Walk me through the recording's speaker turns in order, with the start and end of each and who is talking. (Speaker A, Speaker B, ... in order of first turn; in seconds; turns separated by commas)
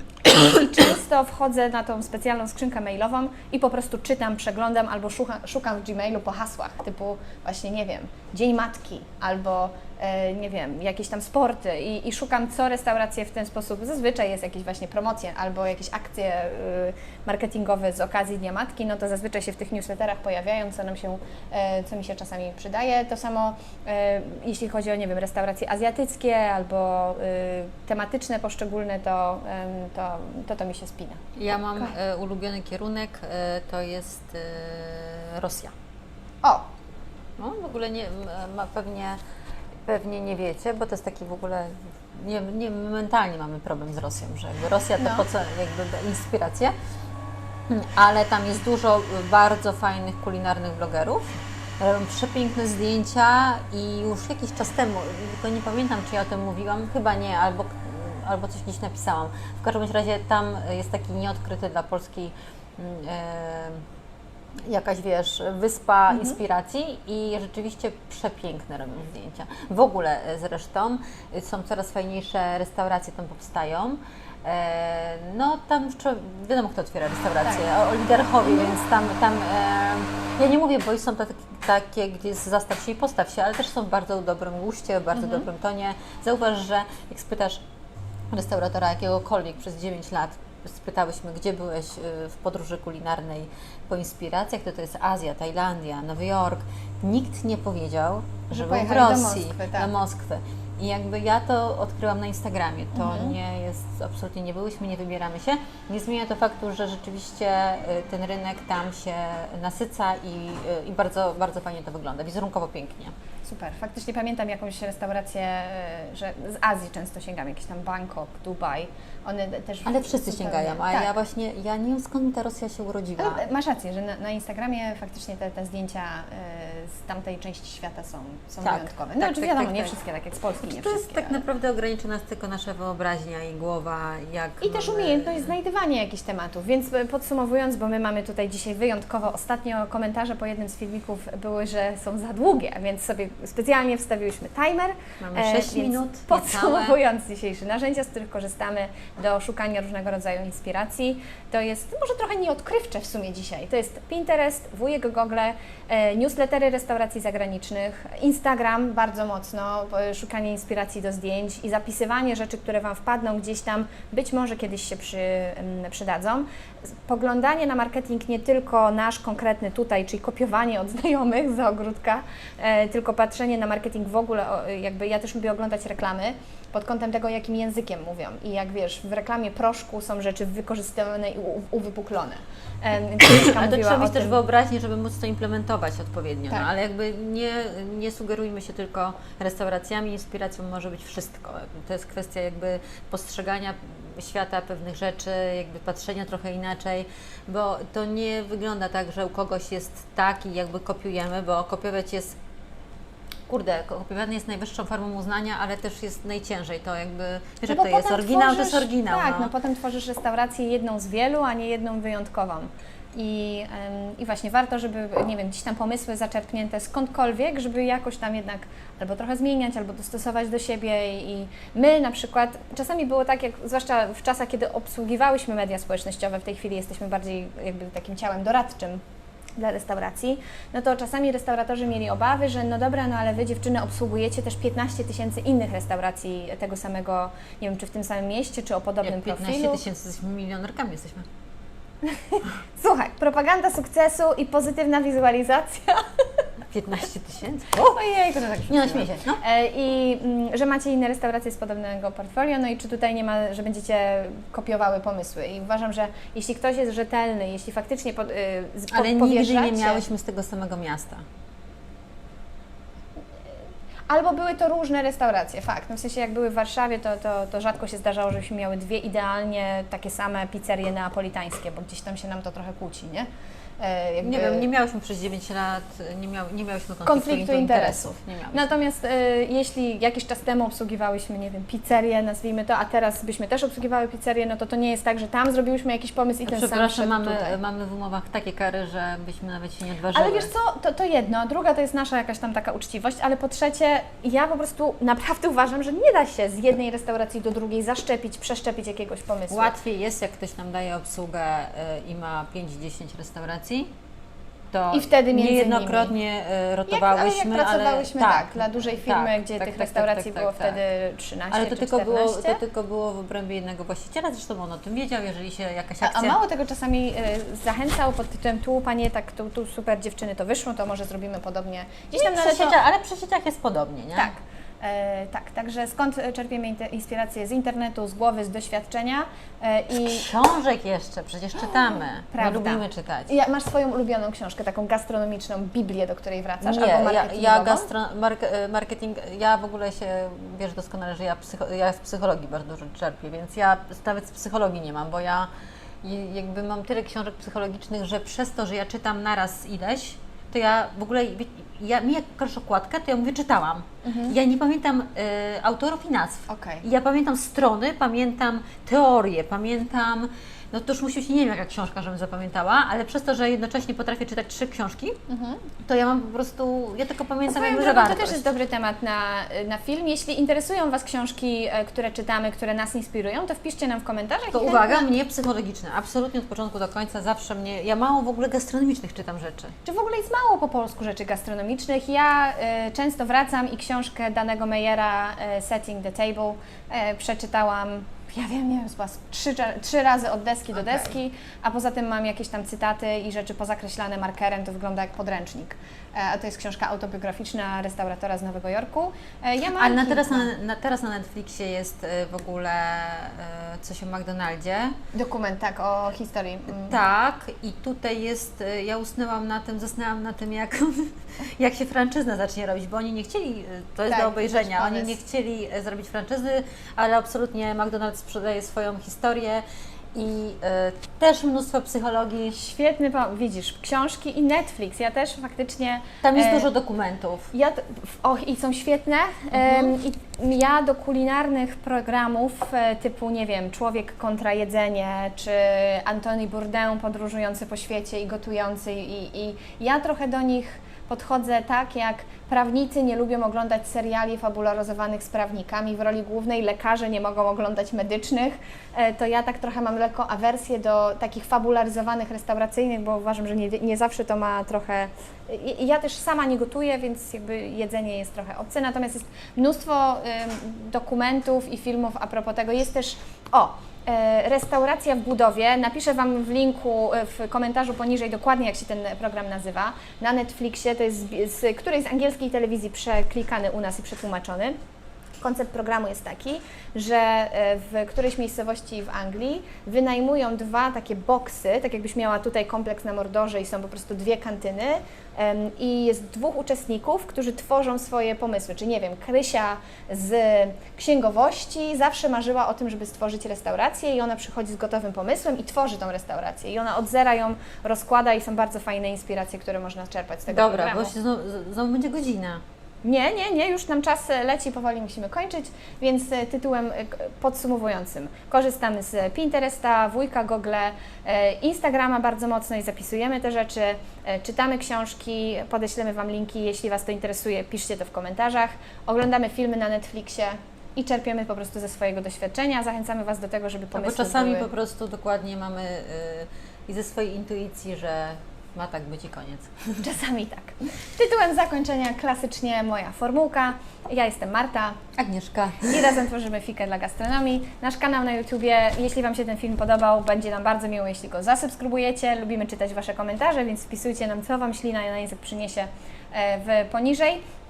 Speaker A: 0.2-31.2, Speaker B: 31.4-35.7, Speaker B: 37.4-39.2, Speaker B: 39.9-46.7, Speaker A: 45.0-45.2, Speaker B: 47.7-63.8, Speaker B: 64.7-87.6, Speaker A: 66.1-66.4, Speaker A: 78.4-78.8, Speaker A: 85.1-85.5, Speaker B: 88.3-113.1, Speaker A: 98.5-99.9, Speaker A: 102.9-103.3, Speaker A: 113.4-121.2, Speaker B: 119.8-123.4, Speaker A: 123.2-131.4, Speaker B: 128.6-129.9, Speaker B: 130.6-135.5, Speaker A: 134.6-184.4, Speaker B: 145.2-147.0, Speaker B: 183.3-202.3, Speaker B: 203.5-209.5, Speaker A: 207.7-229.0, Speaker A: 229.6-239.8, Speaker B: 239.0-241.2, Speaker A: 242.1-246.4, Speaker B: 246.7-248.0, Speaker A: 247.8-260.1, Speaker B: 248.7-249.4, Speaker B: 258.9-261.2, Speaker A: 264.1-273.3, Speaker A: 273.8-274.7, Speaker B: 274.2-278.7, Speaker A: 277.0-287.6, Speaker B: 286.4-290.5, Speaker A: 290.1-299.7, Speaker B: 299.5-303.9, Speaker B: 304.7-310.8, Speaker A: 304.9-306.1, Speaker A: 306.9-312.6, Speaker B: 311.5-316.4, Speaker A: 316.0-322.8, Speaker B: 322.1-324.3, Speaker A: 324.1-330.3, Speaker B: 329.9-333.3, Speaker A: 331.6-337.9, Speaker B: 336.6-345.5, Speaker B: 346.0-365.1, Speaker A: 354.0-354.3, Speaker A: 356.5-356.8, Speaker A: 365.3-365.6, Speaker B: 365.9-368.4, Speaker A: 367.5-375.1, Speaker B: 374.5-379.7, Speaker A: 379.8-400.5, Speaker B: 399.8-404.9, Speaker A: 405.1-407.0, Speaker B: 406.7-419.6, Speaker A: 414.1-415.2, Speaker B: 420.1-422.6, Speaker A: 422.5-426.7, Speaker B: 426.2-427.5, Speaker A: 427.5-474.8, Speaker B: 429.5-429.9, Speaker A: 475.4-501.1, Speaker B: 500.5-502.6, Speaker A: 503.0-524.7, Speaker B: 523.9-530.0, Speaker A: 530.0-535.0, Speaker B: 535.2-536.2, Speaker A: 535.8-547.4